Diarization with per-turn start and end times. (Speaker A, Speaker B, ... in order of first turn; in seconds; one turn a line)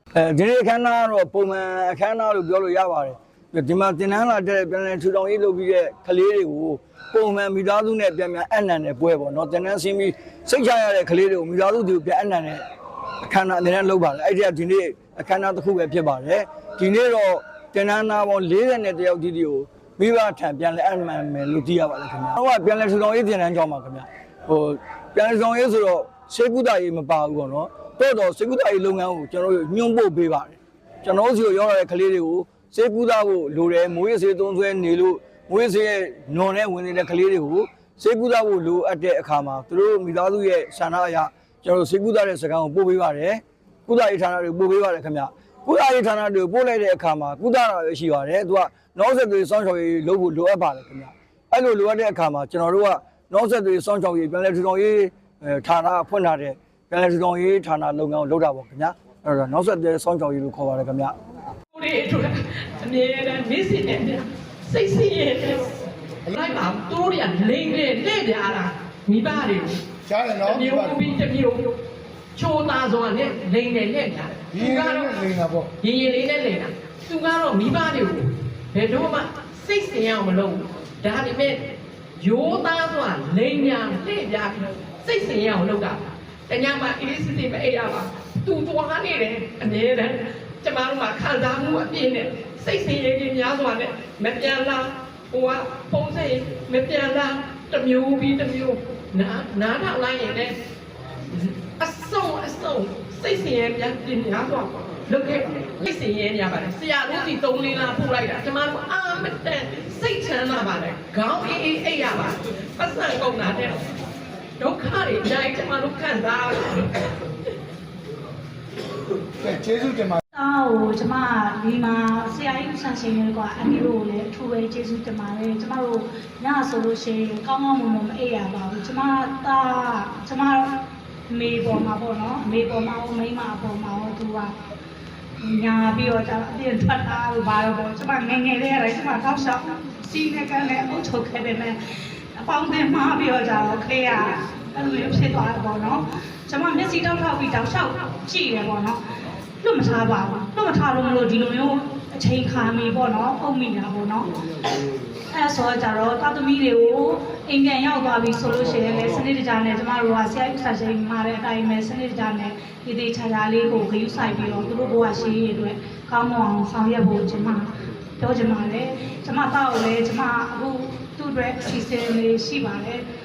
Speaker A: 0.1-12.6
Speaker A: 13.2-61.1
Speaker B: 61.7-69.8
Speaker C: 70.0-71.0
Speaker B: 70.4-71.8
Speaker B: 72.3-75.2
Speaker C: 74.5-75.7
Speaker B: 75.8-100.6
Speaker B: 101.3-113.8
Speaker B: 114.6-117.1
Speaker C: 119.4-120.2
Speaker D: 120.3-130.8
Speaker D: 131.3-134.5
Speaker D: 135.4-141.8
Speaker D: 142.4-149.0
Speaker D: 149.6-154.4
Speaker D: 155.3-173.0